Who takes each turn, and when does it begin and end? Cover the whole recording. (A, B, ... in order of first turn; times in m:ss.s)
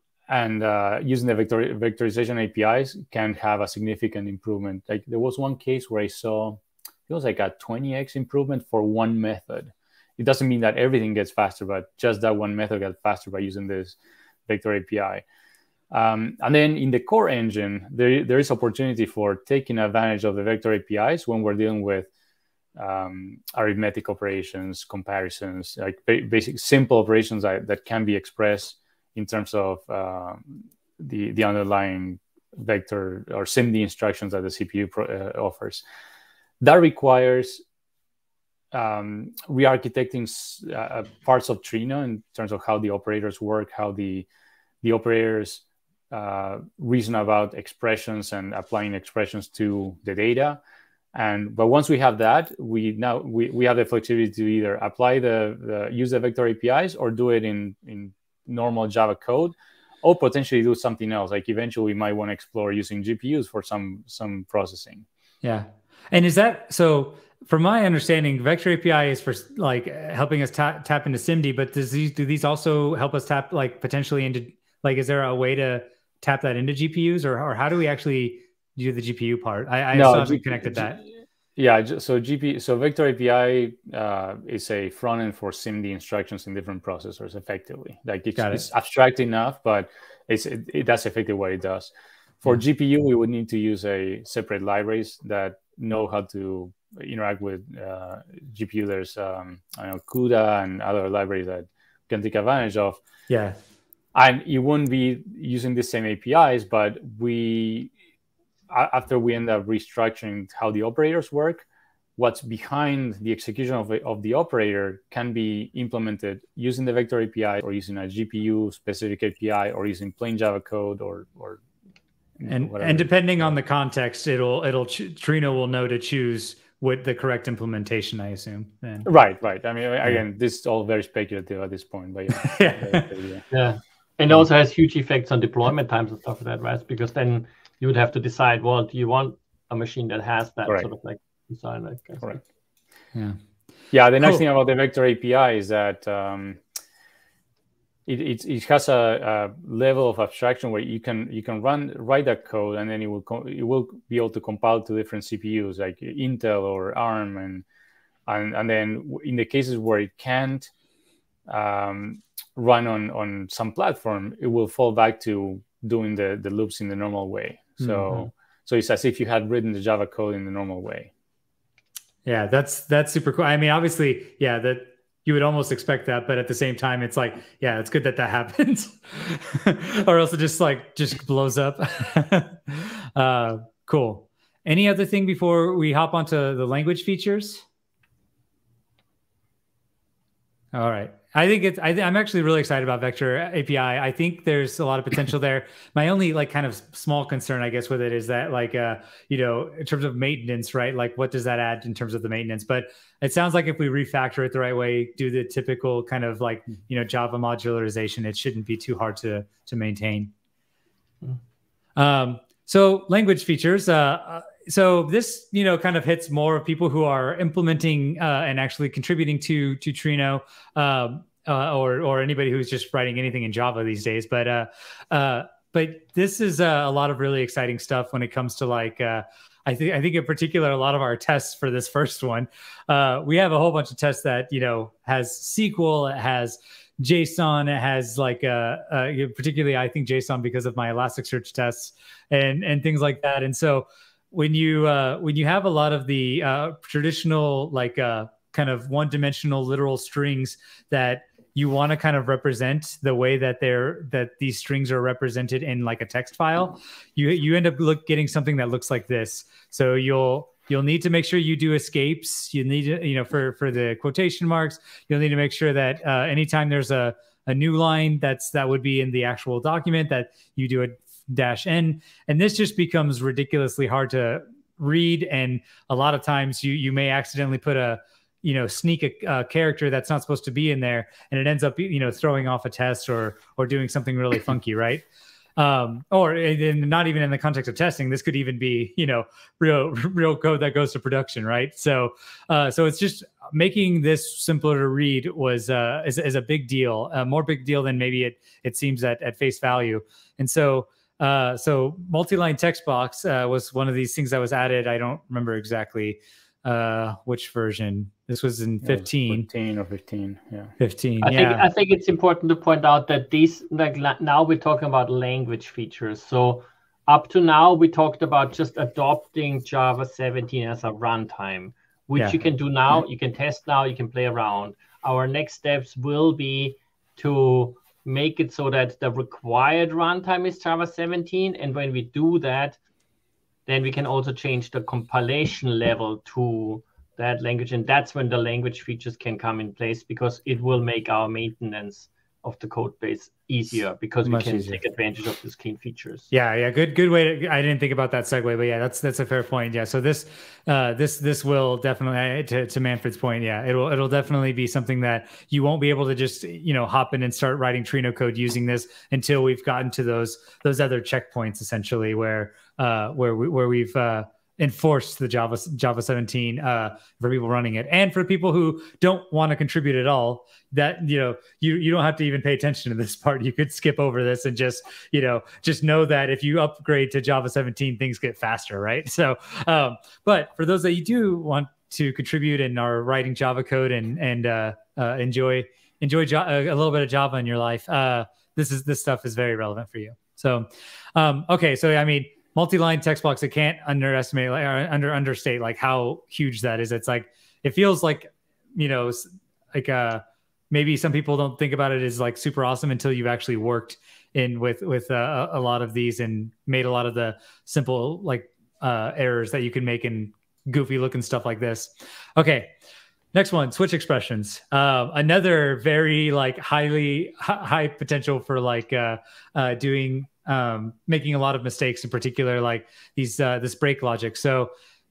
0:00.3-0:14.0 A
0:14.5-0:15.2 A
0:15.9-0:22.1 A
0:22.8-0:35.8 A
0:36.6-0:37.6 A
0:38.7-0:44.3 A
0:44.8-0:50.6 A
0:51.1-1:05.0 A
1:05.4-1:21.0 B
1:19.9-1:21.0 A
1:21.6-1:31.9 A
1:28.4-1:28.6 B
1:32.4-1:43.0 A
1:43.3-1:43.6 B
1:44.1-1:47.9 A
1:48.7-1:51.6 A
1:52.2-2:01.6 A
2:02.4-2:03.1 A
2:02.5-2:09.1 B
2:09.0-2:13.4 A
2:12.3-2:13.1 B
2:13.5-2:22.4 C
2:23.9-2:26.6 A
2:28.0-2:37.6 A
2:38.3-2:40.7 A
2:41.5-2:51.1 A
2:47.8-2:48.3 B
2:52.2-3:07.6 B
3:10.7-3:30.3 B
3:32.0-4:45.0 B
4:45.6-5:09.5 B
5:08.8-5:10.7 A
5:10.8-5:11.6 B
5:11.2-5:32.8 C
5:33.7-5:46.3 C
5:44.2-5:44.8 B
5:46.3-6:52.7 B
6:53.3-7:04.7 B